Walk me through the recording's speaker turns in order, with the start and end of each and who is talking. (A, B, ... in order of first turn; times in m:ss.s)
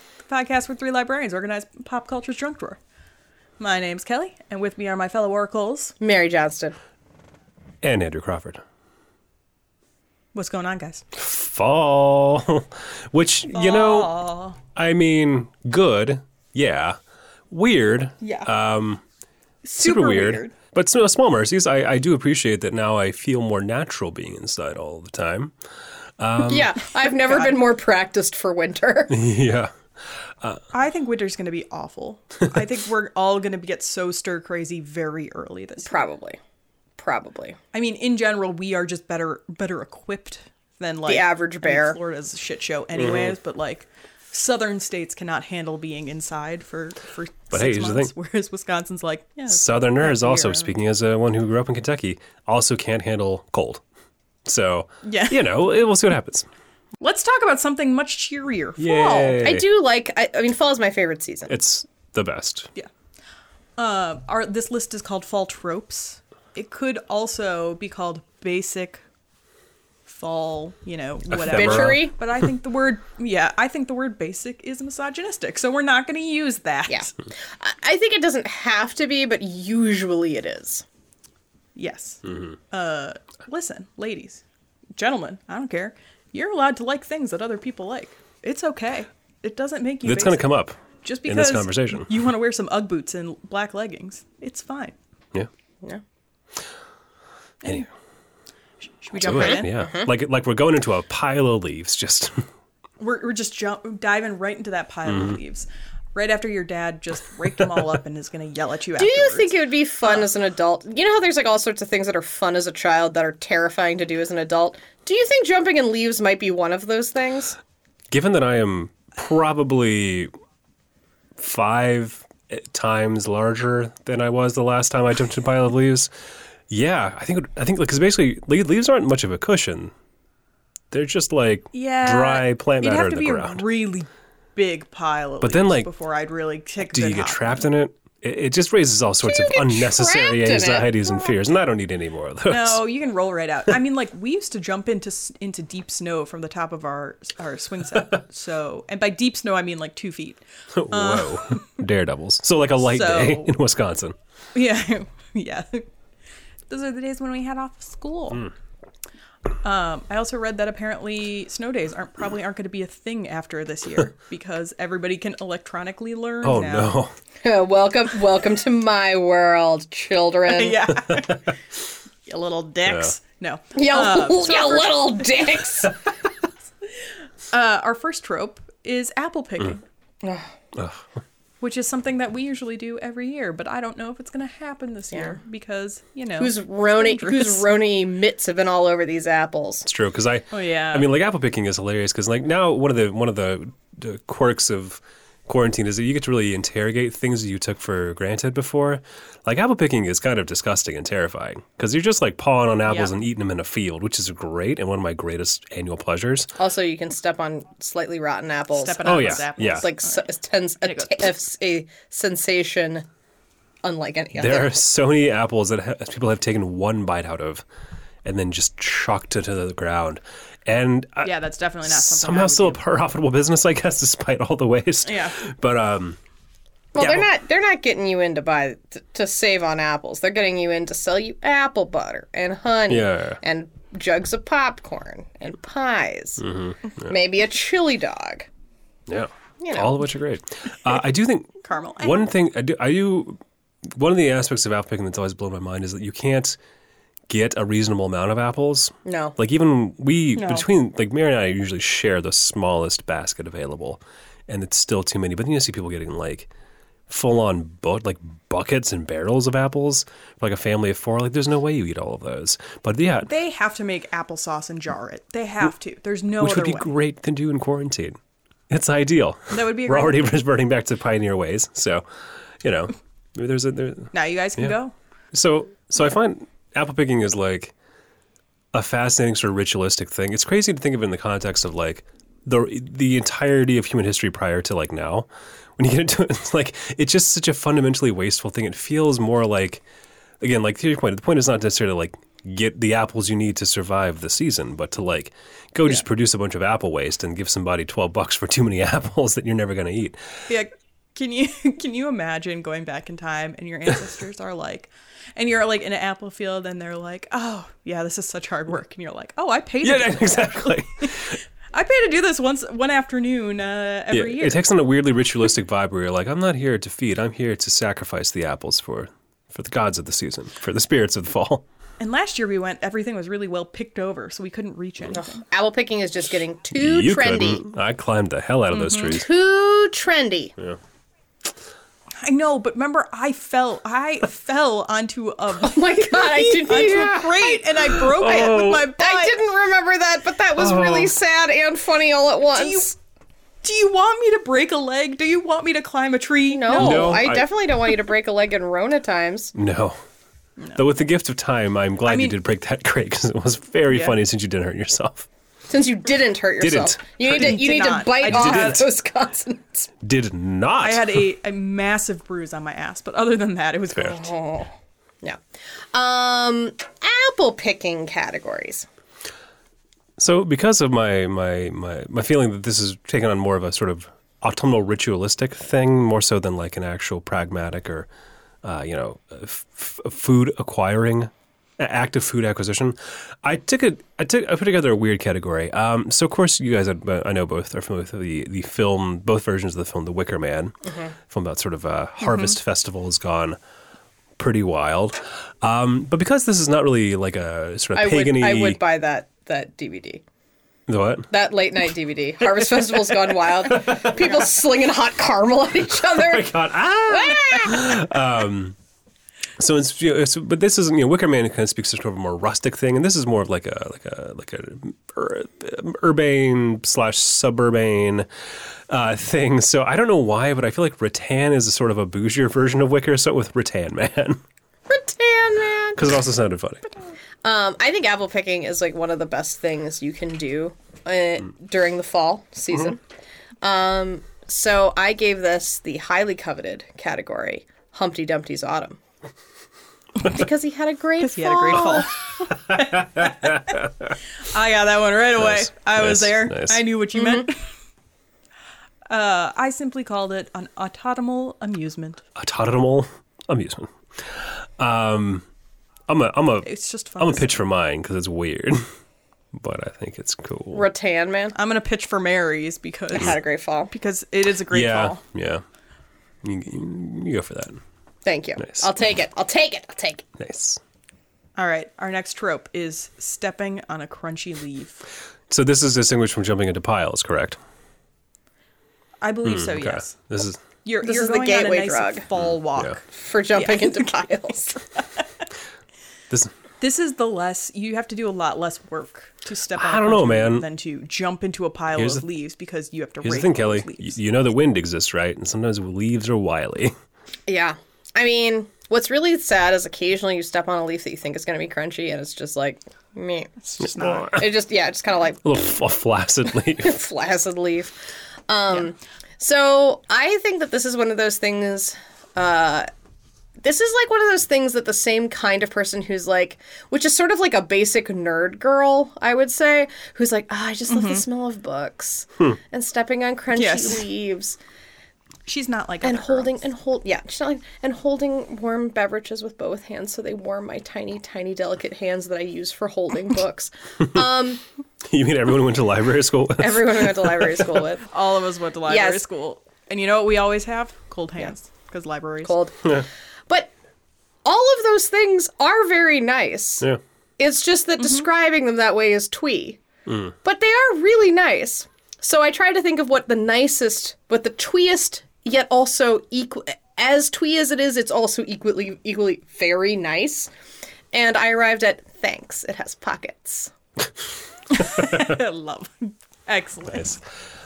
0:00.3-0:02.8 A
0:03.6-0:05.9 A
0:06.0-0:06.8 B
0:07.8-0:08.6 C
0:10.3-0:11.0 A
0:11.1-0:14.2 C
0:13.5-0:14.6 A
0:14.7-0:17.0 C
0:17.5-0:19.0 C
0:18.2-0:18.5 A
0:19.6-0:20.5 A
0:19.8-0:25.5 C
0:26.2-0:26.7 C
0:26.4-0:29.2 B
0:27.2-0:27.6 A
0:29.1-0:29.8 C
0:30.7-0:36.1 A
0:35.8-0:36.4 B
0:37.0-0:37.6 B
0:37.7-0:50.7 A
0:41.1-0:42.0 B
0:47.5-0:48.1 C
0:49.5-0:53.8 C
0:54.4-0:56.5 C
0:55.0-0:55.4 A
0:57.0-0:59.4 A
0:58.8-0:59.6 C
0:59.4-1:01.5 B
1:01.5-1:02.7 C
1:03.8-1:09.0 A
1:10.1-1:17.1 A
1:11.3-1:12.0 C
1:11.5-1:12.1 B
1:16.9-1:20.8 B
1:21.8-1:24.4 A
1:25.0-1:35.0 A
1:30.0-1:32.2 C
1:39.0-1:39.7 A
1:39.2-1:42.5 C
1:39.3-1:40.1 B
1:43.0-1:50.3 A
1:45.1-1:45.4 C
1:49.0-1:57.6 B
1:58.1-2:00.3 C
2:01.4-2:06.1 C
2:06.7-2:09.9 C
2:10.9-2:13.6 C
2:11.7-2:17.7 A
2:15.4-2:15.9 C
2:16.9-2:22.8 C
2:19.2-2:21.4 B
2:22.5-2:31.6 A
2:30.7-2:34.2 C
2:32.8-2:33.6 A
2:34.6-2:35.9 A
2:36.7-2:38.4 A
2:39.6-2:46.9 A
2:46.4-2:47.1 C
2:47.4-2:50.8 B
2:50.5-2:51.6 A
2:52.3-2:55.2 A
2:52.9-2:53.1 C
2:53.8-2:56.0 B
2:57.5-2:59.8 A
3:00.2-3:00.5 B
3:00.8-3:01.0 C
3:01.6-3:07.7 A
3:05.1-3:05.4 B
3:06.4-3:09.9 B
3:09.9-3:26.5 C
3:10.5-3:11.1 A
3:22.9-3:23.1 A
3:26.6-3:33.1 B
3:28.7-3:30.3 A
3:29.0-3:29.9 C
3:30.8-3:31.3 A
3:33.8-3:34.7 B
3:34.4-3:37.6 C
3:38.2-3:46.2 C
3:41.2-3:42.8 A
3:45.0-3:45.4 A
3:47.0-3:56.5 B
3:52.9-3:53.4 C
3:56.4-3:56.8 C
3:57.0-3:58.5 B
3:59.1-4:06.6 C
3:59.6-3:59.9 B
4:01.6-4:02.2 A
4:07.3-4:16.5 C
4:09.0-4:09.4 B
4:10.4-4:10.7 A
4:17.1-4:23.3 C
4:23.2-4:26.9 A
4:26.4-4:28.2 C
4:28.7-4:32.0 C
4:29.5-4:30.3 A
4:32.6-4:34.8 C
4:34.1-4:34.9 A
4:35.3-4:37.7 C
4:38.7-4:49.8 C
4:50.4-5:00.4 C
5:00.5-5:14.6 A
5:09.8-5:11.4 C
5:14.1-5:21.6 C
5:22.0-5:25.4 A
5:25.1-5:27.6 B
5:26.8-5:29.3 C
5:28.7-5:29.2 A
5:29.1-5:30.5 B
5:32.2-5:39.4 A
5:35.6-5:37.9 B
5:38.0-5:38.9 C
5:39.0-5:42.9 B
5:40.6-5:41.1 C
5:42.6-5:42.9 A
5:43.6-5:47.2 A
5:46.5-5:49.5 B
5:46.7-5:47.5 C
5:49.6-5:50.0 C
5:50.8-5:55.3 C
5:52.1-5:52.4 A
5:53.9-5:54.2 A
5:55.7-5:59.9 B
5:56.6-5:57.6 C
5:57.3-5:58.9 A
5:58.2-5:58.9 C
6:00.0-6:01.2 C
6:00.8-6:04.3 A
6:04.0-6:04.7 B
6:05.9-6:08.9 B
6:10.2-6:18.1 C
6:18.6-6:30.8 C
6:30.9-6:31.1 B
6:31.3-6:33.6 C
6:34.4-6:38.8 C
6:38.0-6:40.2 B
6:40.9-6:41.3 C
6:41.3-6:46.5 B
6:43.7-6:44.2 C
6:46.0-6:48.8 C
6:47.0-6:47.9 B
6:49.6-6:58.3 C
6:58.9-7:04.4 C
7:04.9-7:06.0 B
7:06.0-7:06.8 C
7:07.4-7:13.0 B
7:13.6-7:19.0 B
7:20.2-7:22.1 B
7:21.2-7:23.8 A
7:24.4-7:27.6 A
7:25.4-7:26.8 C
7:27.2-7:27.5 B
7:29.1-7:32.2 A
7:32.4-7:35.4 C
7:36.1-7:38.8 C
7:36.6-7:37.6 A
7:39.5-7:40.9 C
7:40.7-7:41.6 B
7:41.6-7:45.2 A
7:43.1-7:43.9 B
7:44.7-7:45.6 C
7:46.4-7:47.8 C
7:48.2-7:50.3 B
7:48.6-7:48.9 C
7:50.4-7:50.8 C
7:51.6-7:55.0 A
7:55.5-7:57.6 C
7:59.2-8:00.2 A
7:59.4-8:00.6 C
8:00.8-8:05.2 A
8:01.0-8:02.2 B
8:02.4-8:02.9 C
8:03.1-8:04.8 B
8:06.8-8:14.2 A
8:09.8-8:10.7 C
8:11.9-8:12.2 C
8:13.2-8:16.9 C
8:17.5-8:25.4 B
8:23.8-8:24.5 C
8:23.8-8:24.2 A
8:25.4-8:27.0 C
8:26.8-8:28.0 B
8:28.5-8:32.9 B
8:33.6-8:44.6 B
8:40.9-8:41.2 A
8:43.5-8:44.0 A
8:45.5-8:46.5 A
8:46.0-8:54.6 B
8:55.0-8:57.6 C
8:56.6-8:58.1 B
8:58.0-9:02.6 A
8:58.9-8:59.2 B
9:02.4-9:03.7 B
9:04.4-9:06.9 B
9:07.4-9:09.8 B
9:10.1-9:10.3 C
9:10.4-9:20.5 B
9:21.1-9:23.7 B
9:24.7-9:27.2 A
9:26.9-9:27.2 C